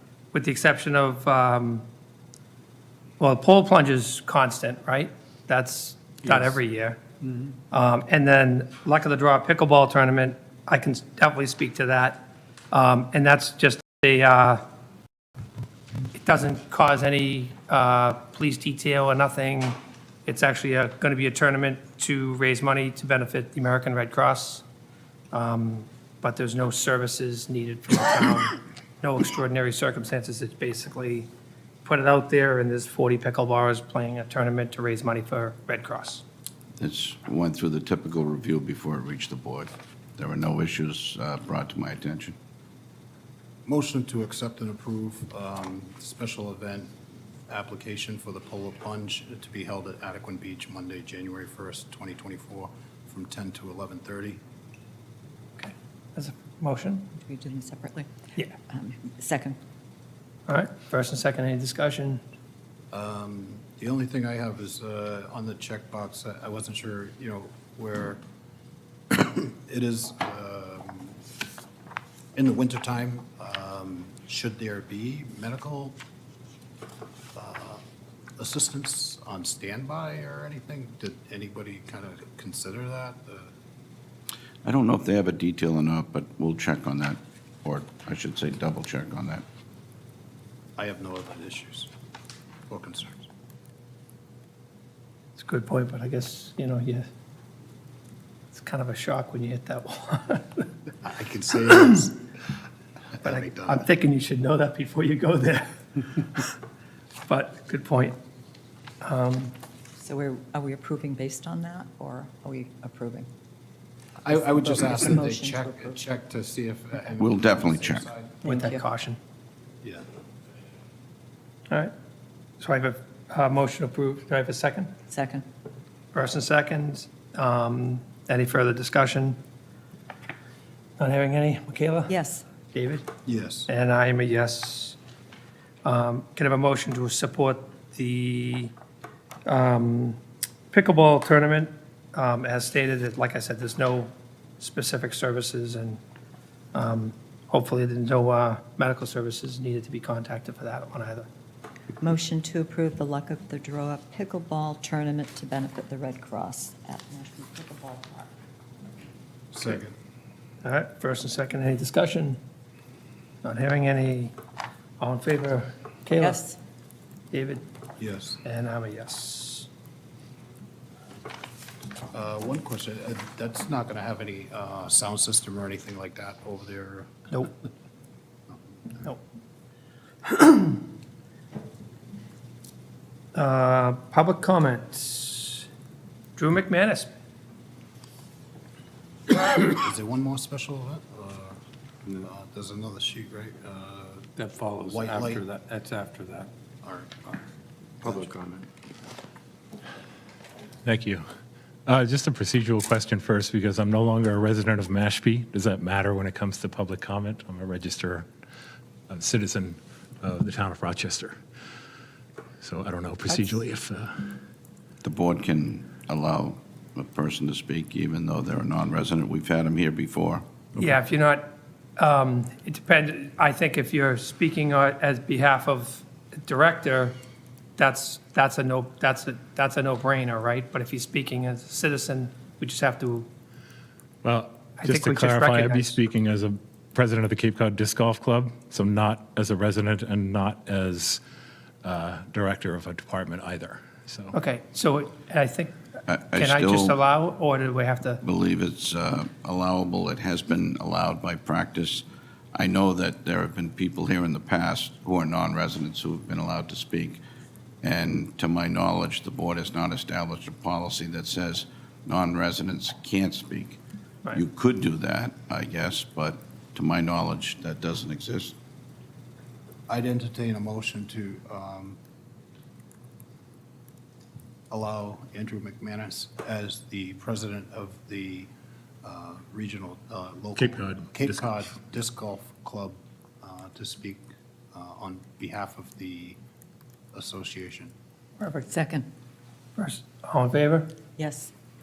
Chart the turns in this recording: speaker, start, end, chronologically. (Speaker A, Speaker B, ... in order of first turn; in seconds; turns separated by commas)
Speaker A: 0.3-1.8, Speaker A: 3.2-7.0, Speaker A: 7.7-14.6, Speaker A: 16.1-24.6, Speaker A: 25.3-31.3, Speaker A: 31.8-36.2, Speaker B: 36.8-42.4, Speaker C: 43.7-46.9, Speaker C: 47.5-54.4, Speaker A: 55.6-57.1, Speaker D: 57.1-58.1, Speaker D: 58.7-59.6, Speaker A: 60.5-62.2, Speaker C: 62.9-68.2, Speaker C: 69.1-71.2, Speaker C: 72.3-76.0, Speaker C: 77.3-77.8, Speaker C: 78.4-83.5, Speaker B: 84.7-89.4, Speaker C: 90.8-91.9, Speaker C: 92.7-93.3, Speaker A: 95.4-97.1, Speaker A: 98.5-100.7, Speaker C: 101.0-102.2, Speaker C: 103.2-103.9, Speaker A: 103.2-106.5, Speaker A: 107.3-108.2, Speaker A: 109.0-109.5, Speaker D: 110.0-113.3, Speaker C: 114.2-118.4, Speaker D: 114.2-116.0, Speaker B: 117.2-118.1, Speaker D: 118.4-118.8, Speaker A: 118.4-119.2, Speaker A: 122.6-125.0, Speaker D: 125.1-125.5, Speaker A: 126.1-129.4, Speaker A: 131.0-132.2, Speaker D: 132.1-132.4, Speaker A: 132.7-133.1, Speaker C: 133.2-133.7, Speaker A: 133.7-135.0, Speaker A: 135.8-138.7, Speaker A: 139.5-140.2, Speaker A: 140.7-146.0, Speaker A: 146.7-151.3, Speaker D: 152.0-158.3, Speaker C: 159.5-159.9, Speaker A: 160.6-162.4, Speaker A: 163.4-164.3, Speaker A: 165.0-166.4, Speaker D: 166.2-166.6, Speaker A: 167.3-167.7, Speaker C: 168.0-168.4, Speaker A: 168.4-169.7, Speaker C: 172.1-177.3, Speaker A: 180.2-180.8, Speaker A: 183.3-185.7, Speaker A: 186.4-187.1, Speaker C: 189.4-191.6, Speaker C: 192.2-194.3, Speaker E: 194.4-196.5, Speaker C: 194.9-195.5, Speaker C: 196.8-197.5, Speaker C: 198.0-198.3, Speaker E: 198.0-198.7, Speaker F: 200.8-201.2, Speaker F: 201.9-208.3, Speaker F: 209.1-211.4, Speaker F: 212.6-214.3, Speaker B: 215.0-220.4, Speaker A: 220.8-227.2, Speaker A: 227.8-233.3, Speaker F: 234.2-241.2, Speaker A: 234.8-236.0, Speaker F: 241.8-244.4, Speaker A: 244.3-245.8, Speaker B: 246.1-247.0, Speaker A: 246.3-248.2, Speaker B: 248.2-257.2, Speaker B: 257.8-263.8, Speaker B: 264.3-268.6, Speaker C: 269.9-272.0, Speaker C: 274.7-278.5, Speaker C: 279.0-286.4, Speaker F: 280.6-281.4, Speaker C: 287.1-287.9, Speaker A: 288.4-288.7, Speaker D: 288.7-289.1, Speaker A: 289.8-290.9, Speaker D: 291.2-291.5